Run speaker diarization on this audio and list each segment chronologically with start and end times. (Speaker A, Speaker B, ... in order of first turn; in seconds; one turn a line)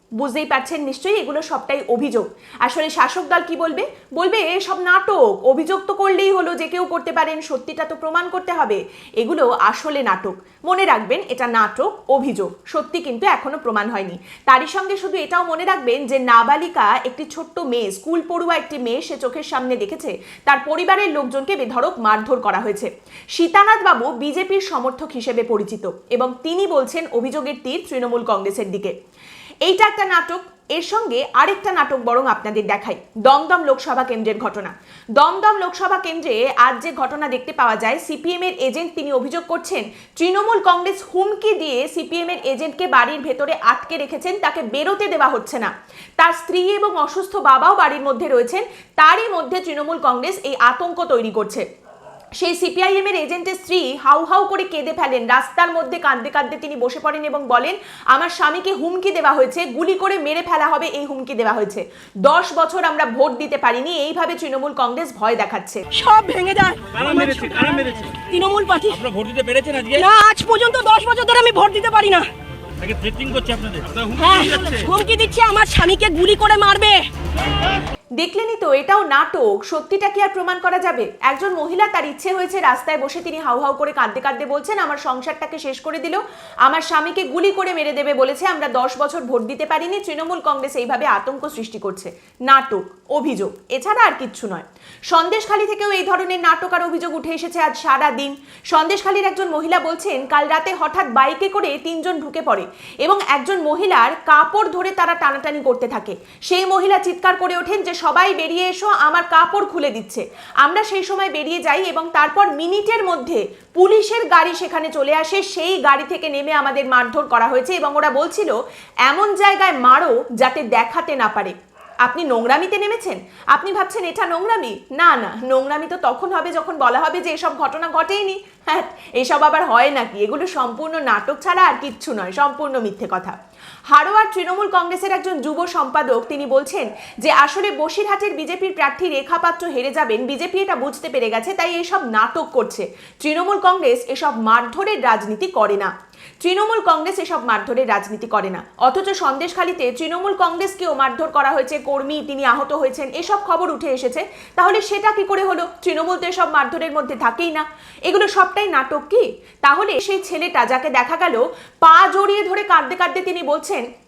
Speaker A: 0.2-28.9
Speaker A: 29.6-51.6
Speaker A: 52.4-65.8
Speaker B: 65.9-69.1
Speaker C: 69.1-69.9
Speaker B: 69.9-72.3
Speaker C: 72.8-74.0
Speaker B: 74.1-77.1
Speaker A: 78.2-133.4
Speaker A: 133.9-163.9